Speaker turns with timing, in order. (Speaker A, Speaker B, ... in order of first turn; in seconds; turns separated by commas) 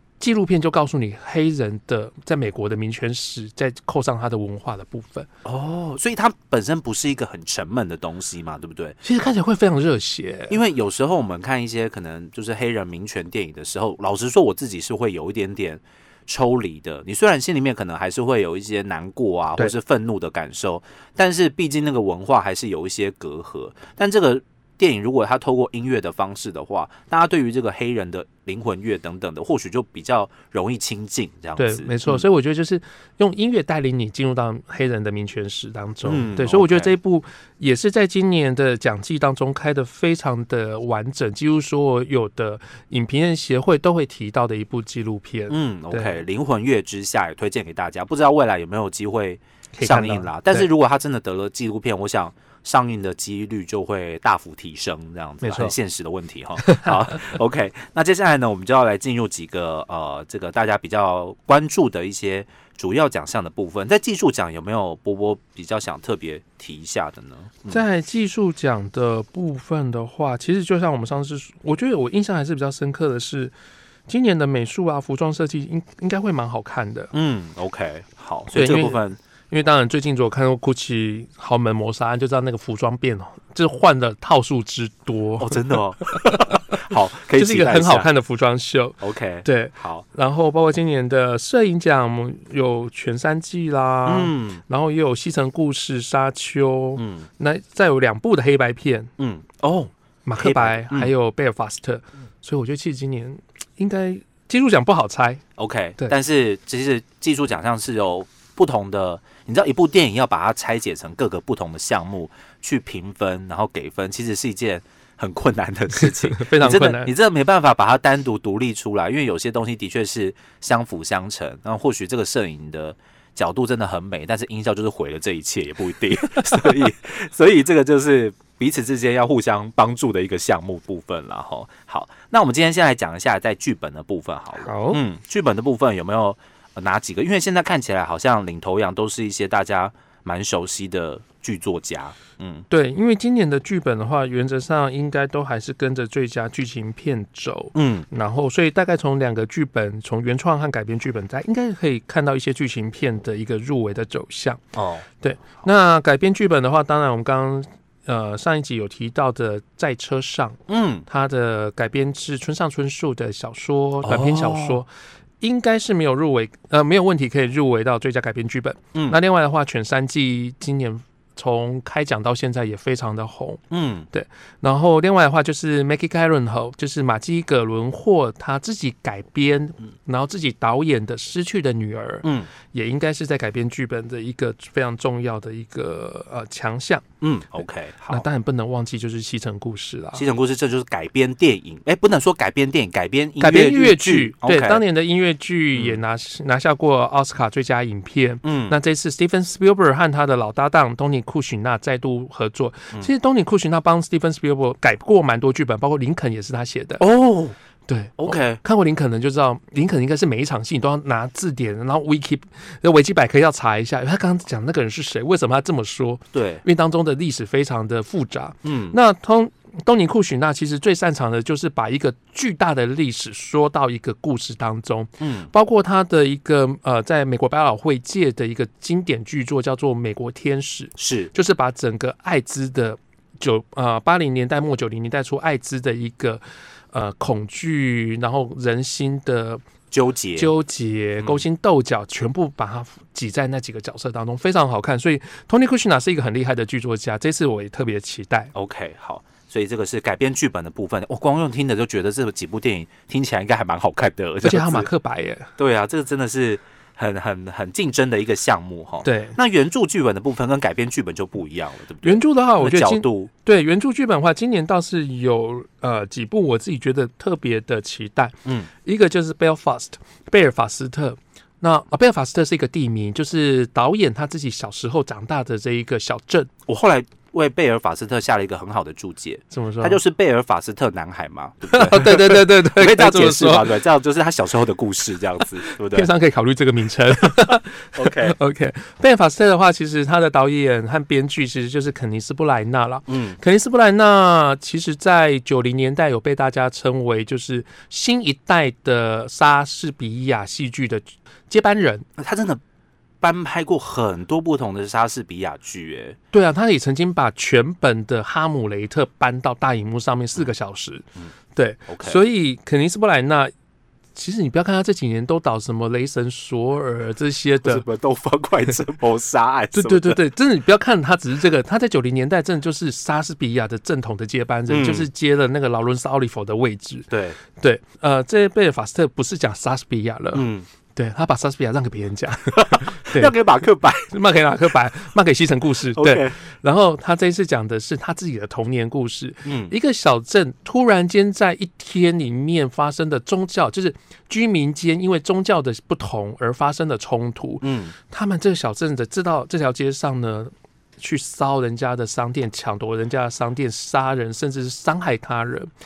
Speaker A: 0.2-5.3, Speaker B: 5.4-9.0, Speaker A: 9.0-10.6, Speaker B: 10.5-32.2, Speaker A: 31.6-46.2, Speaker B: 36.0-36.9, Speaker B: 45.5-67.8, Speaker A: 49.7-50.7, Speaker A: 55.4-55.8, Speaker A: 56.7-56.9, Speaker A: 67.7-73.5, Speaker A: 74.1-77.1, Speaker B: 77.1-79.2, Speaker A: 78.5-86.6, Speaker B: 85.4-88.1, Speaker A: 87.3-99.1, Speaker B: 89.0-90.0, Speaker B: 94.1-94.6, Speaker B: 97.0-97.3, Speaker B: 99.2-101.1, Speaker A: 100.2-105.4, Speaker B: 105.6-142.7, Speaker A: 116.0-117.1, Speaker A: 134.6-135.0, Speaker A: 142.7-154.6, Speaker B: 147.8-148.1, Speaker B: 154.8-155.1, Speaker A: 155.2-164.9, Speaker B: 160.7-161.1, Speaker B: 164.0-164.8, Speaker A: 165.4-173.6, Speaker B: 168.9-169.2, Speaker B: 173.7-174.1, Speaker A: 174.1-187.0, Speaker B: 182.2-182.5, Speaker B: 187.2-188.2, Speaker A: 188.1-190.2, Speaker B: 190.1-194.8, Speaker A: 193.4-207.0, Speaker B: 195.8-196.0, Speaker B: 198.4-198.8, Speaker B: 207.0-207.6, Speaker A: 207.9-239.6, Speaker B: 208.2-208.6, Speaker B: 216.3-216.6, Speaker B: 218.6-218.9, Speaker B: 225.2-225.5, Speaker B: 231.0-231.3, Speaker B: 239.9-240.5, Speaker A: 240.4-248.5, Speaker B: 248.5-254.9, Speaker A: 254.4-255.5, Speaker B: 255.6-263.3, Speaker A: 259.0-259.4, Speaker A: 262.0-276.5, Speaker B: 276.7-286.1, Speaker A: 279.5-280.0, Speaker A: 281.7-283.8, Speaker A: 285.7-302.1, Speaker B: 287.9-288.4, Speaker B: 293.1-293.4, Speaker B: 302.2-302.6, Speaker B: 303.2-306.2, Speaker A: 306.3-313.5, Speaker B: 311.9-312.2, Speaker A: 314.1-317.8, Speaker B: 317.6-320.2, Speaker A: 319.7-333.3, Speaker B: 324.7-325.1, Speaker B: 327.1-327.4, Speaker B: 330.3-330.7, Speaker B: 332.5-334.1, Speaker A: 334.1-355.7, Speaker B: 335.9-336.4, Speaker B: 339.4-339.7, Speaker B: 347.6-347.9